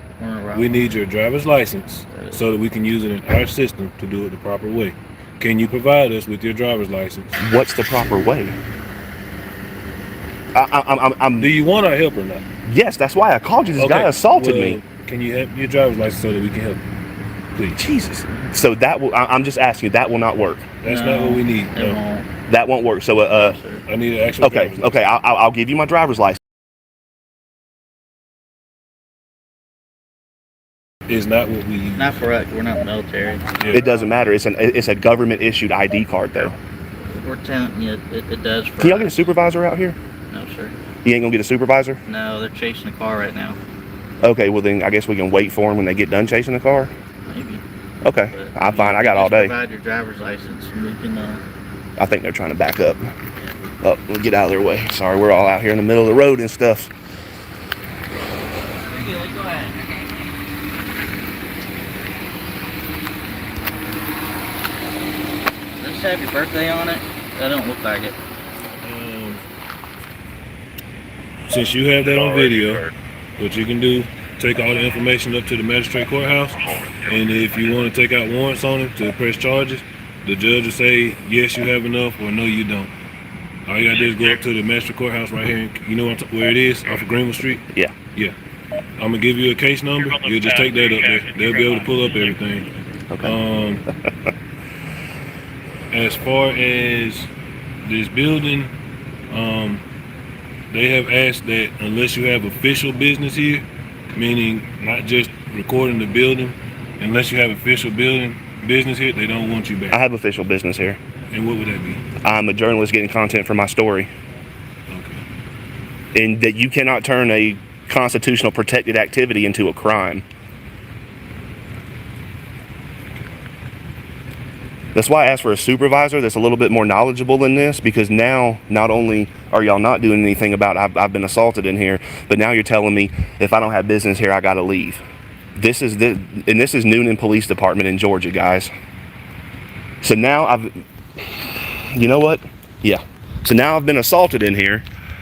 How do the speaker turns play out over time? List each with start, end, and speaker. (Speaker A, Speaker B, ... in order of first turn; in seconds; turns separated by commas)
Speaker A: 0.2-0.8, Speaker B: 0.6-7.4, Speaker A: 2.1-2.4, Speaker C: 7.4-8.6, Speaker C: 10.6-11.5, Speaker B: 11.4-12.4, Speaker C: 12.7-14.8, Speaker B: 13.8-16.8, Speaker B: 17.5-17.8, Speaker C: 17.8-20.7, Speaker B: 20.8-22.0, Speaker A: 20.8-22.3, Speaker C: 22.5-23.6, Speaker A: 23.2-23.8, Speaker B: 23.9-25.1, Speaker C: 24.4-26.4, Speaker B: 31.1-32.3, Speaker A: 32.0-33.7, Speaker C: 33.7-36.6, Speaker A: 37.0-39.3, Speaker C: 38.8-40.0, Speaker A: 40.3-40.8, Speaker C: 41.0-42.0, Speaker A: 42.1-43.6, Speaker C: 44.2-46.9, Speaker A: 47.3-47.6, Speaker C: 48.0-49.5, Speaker A: 48.3-51.4, Speaker C: 52.0-53.0, Speaker C: 53.8-56.9, Speaker A: 58.9-60.0, Speaker A: 65.8-68.2, Speaker B: 68.8-69.4, Speaker B: 71.5-82.9, Speaker B: 83.7-87.6, Speaker B: 89.0-92.7, Speaker B: 93.2-93.8, Speaker B: 95.9-97.3, Speaker B: 97.8-98.7, Speaker B: 99.3-99.8, Speaker B: 100.7-110.0, Speaker C: 109.9-111.0, Speaker B: 111.3-112.0, Speaker C: 112.2-114.1, Speaker B: 114.9-115.2, Speaker C: 116.1-120.2, Speaker C: 125.0-135.0, Speaker C: 135.6-138.7, Speaker C: 140.0-140.8, Speaker C: 141.9-144.9